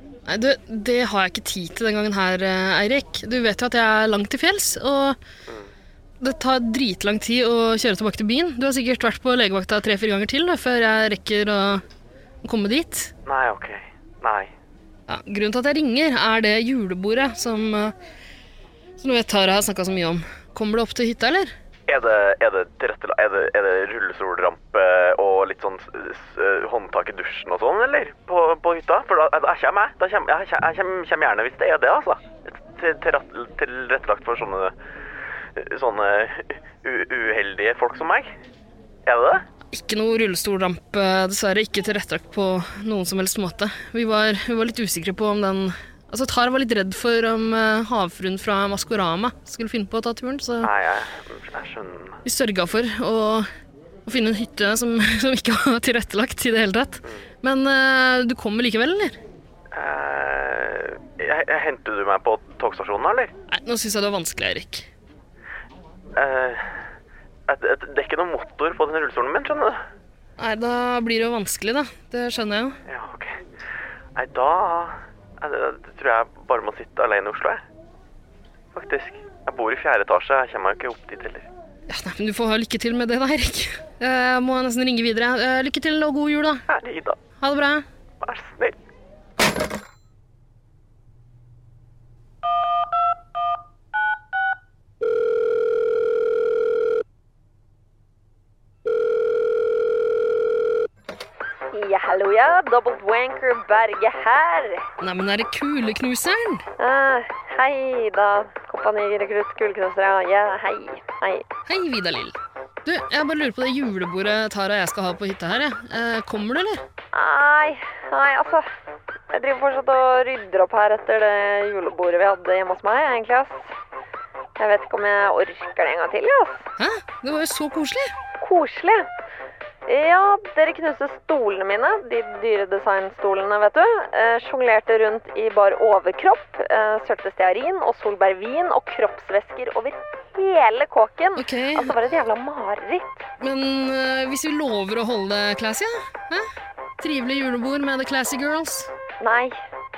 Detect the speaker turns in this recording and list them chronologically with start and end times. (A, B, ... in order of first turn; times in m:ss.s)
0:00.3-0:05.2 A
0:06.2-0:11.8 A
0:12.4-0:13.1 A
0:13.3-0:14.5 B
0:15.1-0:18.0 A
0:19.0-0:21.5 A
0:21.9-0:34.7 B
0:35.6-0:38.3 B
0:39.0-0:39.4 B
0:39.7-0:50.7 A
0:50.6-0:52.2 B
0:52.2-0:53.5 A
0:54.1-0:59.2 A
0:59.7-1:03.3 B
1:03.5-1:04.9 A
1:06.2-1:06.6 B
1:07.5-1:09.8 B
1:10.4-1:12.8 A
1:12.9-1:13.4 B
1:14.2-1:17.6 B
1:18.7-1:21.5 B
1:21.9-1:26.6 A
1:26.7-1:27.2 B
1:27.4-1:27.8 A
1:28.2-1:28.8 B
1:41.7-1:44.8 C
1:45.0-1:46.6 A
1:46.8-1:51.4 C
1:51.7-1:56.8 A
1:57.1-1:58.7 C
1:59.3-2:03.7 C
2:04.6-2:06.7 C
2:06.8-2:08.1 A
2:08.4-2:09.1 C
2:09.8-2:23.2 C
2:21.4-2:22.0 A
2:23.4-2:26.5 A
2:27.0-2:28.9 A
2:29.2-2:29.6 C